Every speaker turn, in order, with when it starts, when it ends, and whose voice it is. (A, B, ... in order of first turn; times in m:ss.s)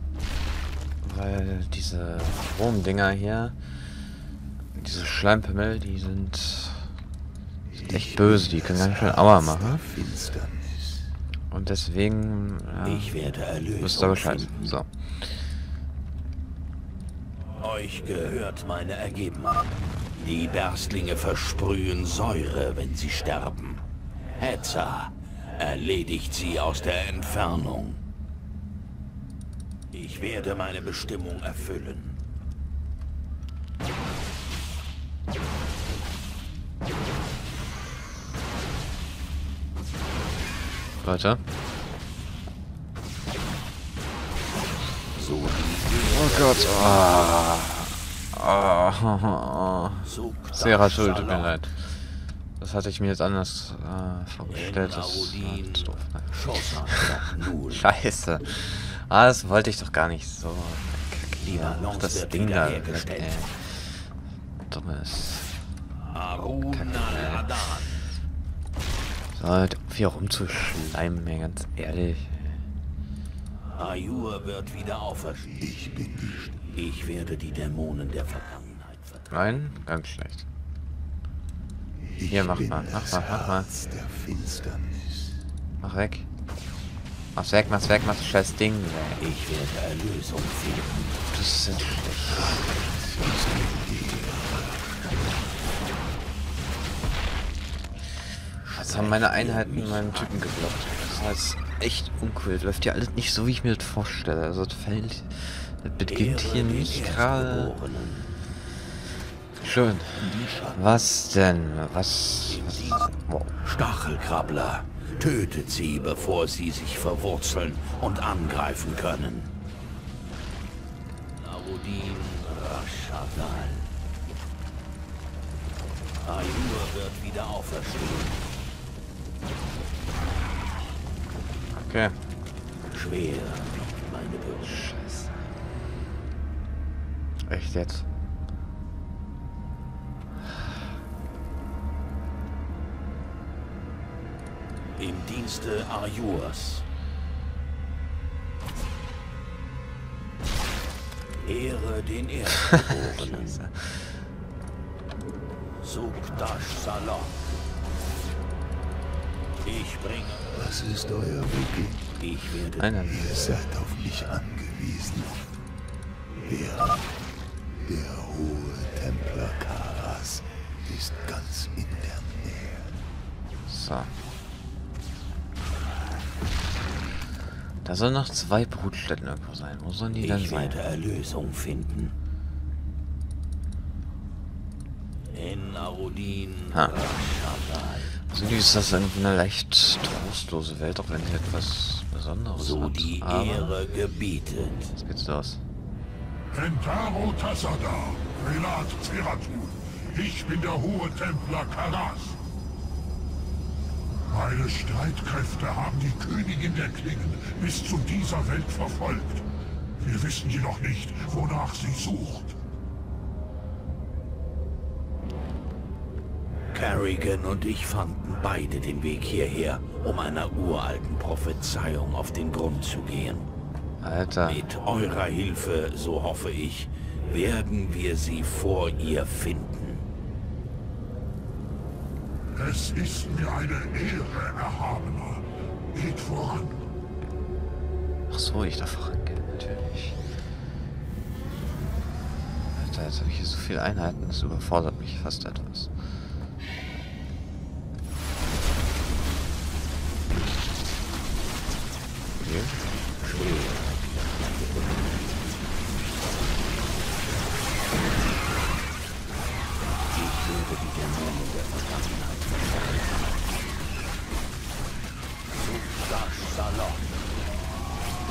0:01.0-0:03.6 A
0:04.8-0:06.9 A
0:07.7-0:11.1 B
0:07.9-0:09.8 A
0:11.5-0:13.2 A
0:12.8-0:14.7 C
0:13.8-0:15.2 A
0:17.6-0:23.8 C
0:24.4-0:28.0 C
0:29.9-0:32.2 C
0:41.0-0:41.4 A
0:45.2-0:47.3 C
0:46.1-0:52.0 A
0:50.0-0:51.6 C
0:52.6-0:56.4 A
0:54.5-0:57.9 C
0:57.7-1:04.1 A
1:01.4-1:03.4 C
1:04.7-1:05.5 A
1:06.1-1:08.0 C
1:06.7-1:07.6 A
1:09.4-1:12.6 A
1:13.8-1:15.5 C
1:15.5-1:16.6 B
1:16.7-1:19.8 C
1:19.3-1:20.4 A
1:22.0-1:25.4 B
1:22.3-1:23.7 A
1:25.8-1:26.3 A
1:27.4-1:29.2 A
1:29.2-1:31.2 C
1:31.3-1:32.7 A
1:32.3-1:35.0 B
1:38.6-1:40.3 C
1:38.8-1:47.7 A
1:46.0-1:48.3 C
1:49.6-1:53.6 A
1:50.3-1:51.0 B
1:52.5-1:59.5 C
2:01.4-2:03.9 C
2:06.2-2:08.4 C
2:11.8-2:12.2 A
2:12.9-2:14.8 C
2:14.6-2:15.4 A
2:17.5-2:18.1 A
2:25.0-2:26.8 C
2:31.4-2:33.6 C
2:32.7-2:34.1 A
2:35.8-2:37.4 C
2:39.6-2:40.5 C
2:40.5-2:42.1 B
2:42.2-2:42.9 C
2:42.8-2:43.4 A
2:43.0-2:45.4 B
2:46.4-2:47.1 B
2:47.8-2:52.9 B
2:53.7-2:54.1 A
2:57.8-3:00.8 A
3:00.2-3:02.2 C
3:05.3-3:08.1 C
3:08.3-3:13.8 A
3:12.6-3:14.9 C
3:15.0-3:15.6 A
3:16.5-3:22.4 D
3:24.3-3:29.5 D
3:30.0-3:32.6 D
3:36.7-3:43.5 C
3:44.0-3:44.6 A
3:44.5-3:50.0 C
3:52.6-3:56.8 D
3:58.3-4:00.2 A
4:02.8-4:05.9 A
4:12.4-4:12.8 A
4:13.2-4:15.3 C
4:20.1-4:23.3 C
4:25.5-4:27.1 C